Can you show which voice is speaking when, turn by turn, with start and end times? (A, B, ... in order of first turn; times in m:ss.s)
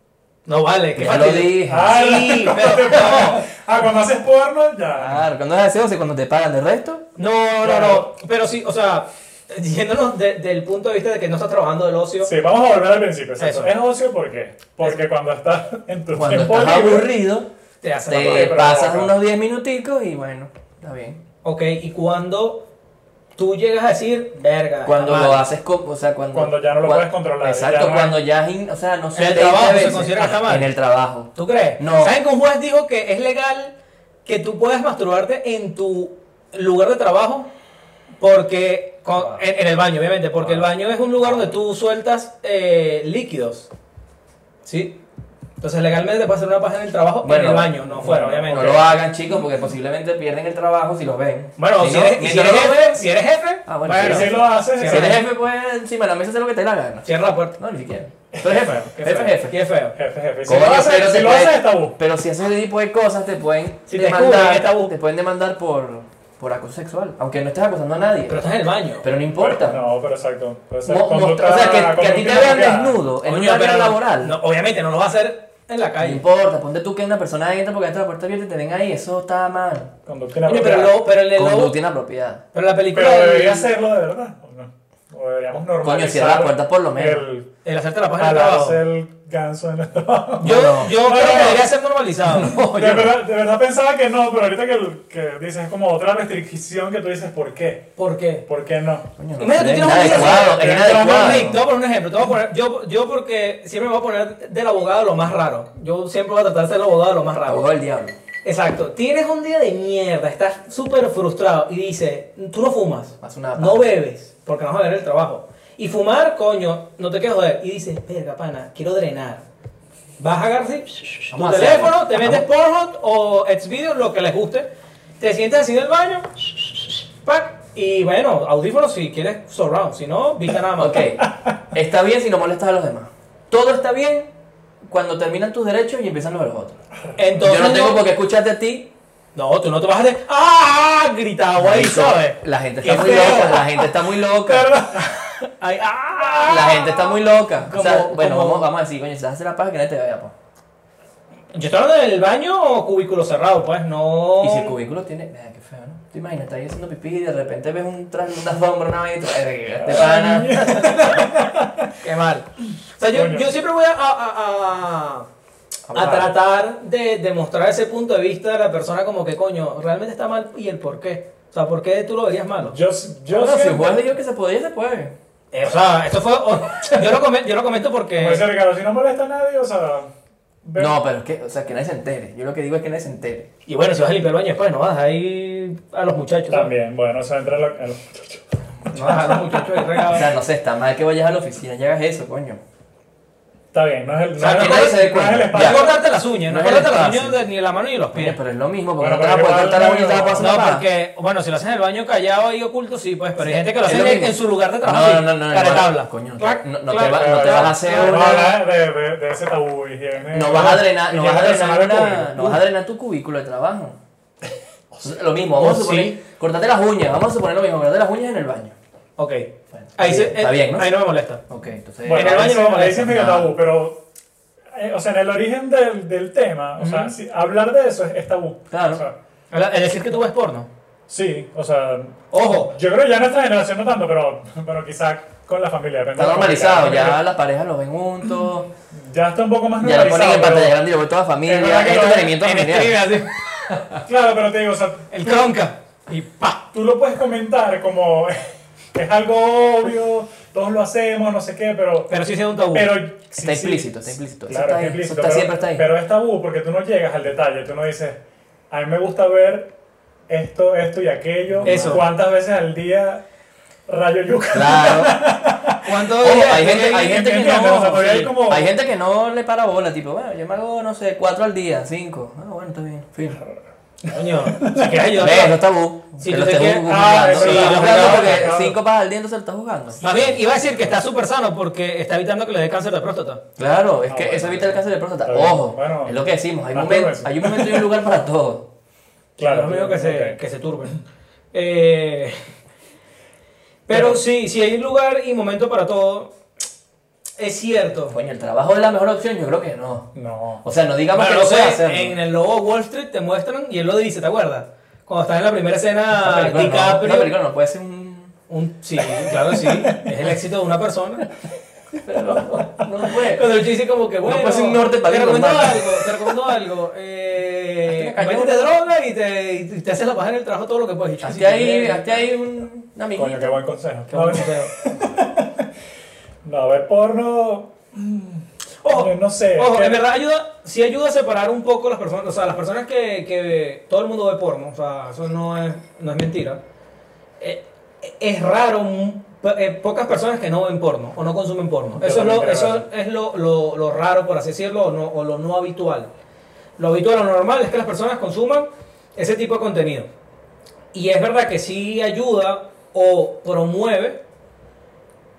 0:00.4-0:03.4 A
0:01.0-0:02.0 B
0:01.7-0:05.2 C
0:04.9-0:07.1 B
0:07.2-0:12.3 A
0:07.6-0:08.1 C
0:12.2-0:17.2 C
0:13.4-0:13.7 A
0:16.1-0:17.5 B
0:17.8-0:18.7 A
0:18.1-0:21.2 B
0:18.1-0:19.1 C
0:21.4-0:22.6 A
0:23.4-0:25.5 A
0:24.8-0:32.2 B
0:26.3-0:28.2 C
0:29.2-0:30.7 A
0:31.4-0:33.7 A
0:34.2-0:37.5 A
0:38.2-0:43.7 A
0:41.2-0:41.5 B
0:44.7-0:45.0 A
0:45.6-0:49.0 A
0:47.2-0:53.1 B
0:48.0-0:48.9 C
0:51.6-0:55.2 A
0:53.7-0:59.6 B
0:54.0-0:55.2 C
0:57.0-0:57.6 A
0:58.4-0:59.3 C
0:59.0-1:00.0 A
0:59.9-1:02.0 C
1:00.4-1:08.4 B
1:03.9-1:04.9 A
1:08.3-1:09.0 A
1:09.0-1:09.8 B
1:09.4-1:13.0 C
1:10.9-1:14.4 B
1:13.2-1:16.2 A
1:16.0-1:19.9 B
1:20.1-1:21.0 C
1:20.4-1:21.8 A
1:21.2-1:22.4 B
1:22.5-1:23.7 A
1:22.9-1:27.5 C
1:25.8-1:27.2 B
1:27.6-1:28.8 A
1:28.2-1:31.7 C
1:30.4-1:31.0 B
1:30.4-1:33.1 A
1:32.5-1:37.9 C
1:38.0-1:38.4 A
1:38.5-1:39.1 C
1:39.2-1:41.6 B
1:39.4-1:47.7 A
1:39.8-1:41.6 C
1:47.5-1:48.2 B
1:48.4-1:59.4 A
1:53.2-1:53.9 B
2:00.2-2:04.7 A
2:01.3-2:02.4 B
2:05.2-2:11.0 A
2:10.8-2:14.3 B
2:14.8-2:16.8 B
2:17.2-2:18.0 A
2:17.4-2:18.9 B
2:19.4-2:23.8 A
2:21.6-2:24.7 B
2:22.8-2:23.7 C
2:24.5-2:25.1 C
2:24.5-2:27.1 A
2:26.5-2:30.3 B
2:27.6-2:28.7 A
2:31.5-2:34.8 A
2:34.4-2:41.3 B
2:39.8-2:41.9 C
2:42.0-2:45.3 A
2:43.1-2:43.5 C
2:45.9-2:46.3 B
2:45.9-2:52.8 A
2:52.7-2:54.0 C
2:53.3-2:55.2 B
2:55.5-2:58.4 A
2:58.2-3:00.1 C
3:00.6-3:01.0 C
3:00.8-3:03.5 B
3:03.7-3:06.7 A
3:06.5-3:10.0 C
3:08.9-3:10.3 A
3:10.1-3:12.6 B
3:13.7-3:16.0 C
3:14.4-3:18.4 A
3:14.4-3:15.9 B
3:16.4-3:17.4 B
3:18.1-3:20.9 B
3:19.0-3:20.6 C
3:20.4-3:28.4 A
3:23.4-3:28.6 B
3:27.0-3:32.6 C
3:30.3-3:34.0 B
3:35.0-3:38.8 B
3:35.6-3:36.2 A
3:39.2-3:41.4 A
3:39.7-3:43.5 B
3:42.0-3:44.0 C
3:42.1-3:43.2 A
3:44.7-3:49.2 C
3:46.8-3:47.1 A
3:48.7-3:49.0 B
3:49.5-3:50.7 A
3:51.1-3:57.2 C
3:52.3-3:52.7 A
3:56.2-3:58.7 B
3:59.0-4:00.8 C
3:59.8-4:03.1 B
4:01.4-4:02.4 C
4:02.4-4:03.8 A
4:04.0-4:05.5 C
4:05.1-4:06.6 A
4:06.7-4:08.4 C
4:08.9-4:12.1 C
4:12.1-4:13.0 A
4:12.7-4:18.2 C
4:13.4-4:15.9 B
4:18.7-4:19.7 C
4:20.3-4:23.2 C
4:21.5-4:22.0 B
4:21.6-4:22.0 A
4:23.9-4:25.9 C
4:24.5-4:25.2 B
4:25.8-4:27.2 A
4:26.2-4:33.4 B
4:26.5-4:28.7 C
4:28.0-4:28.3 A
4:33.3-4:35.1 C
4:34.1-4:35.6 A
4:35.1-4:40.4 B
4:36.2-4:38.5 A
4:36.8-4:38.8 C
4:40.0-4:43.4 A
4:43.6-4:48.7 B
4:44.1-4:47.9 C
4:49.4-4:50.4 C
4:49.4-4:51.0 A
4:51.5-4:52.4 A
4:53.9-4:56.3 A
4:57.4-4:58.2 A
4:58.1-5:00.1 B
5:00.2-5:00.6 C
5:00.6-5:02.2 B
5:01.1-5:07.3 A
5:06.1-5:08.4 B
5:08.5-5:11.3 A
5:09.7-5:10.1 C
5:11.9-5:13.6 B
5:13.3-5:22.2 A
5:14.2-5:16.3 B
5:17.9-5:18.7 B
5:21.2-5:23.6 B
5:23.2-5:25.6 C
5:24.1-5:24.8 A
5:26.4-5:30.0 C
5:28.8-5:36.6 A
5:37.4-5:46.1 A
5:42.0-5:42.9 C
5:46.8-5:50.1 A
5:50.9-5:54.2 A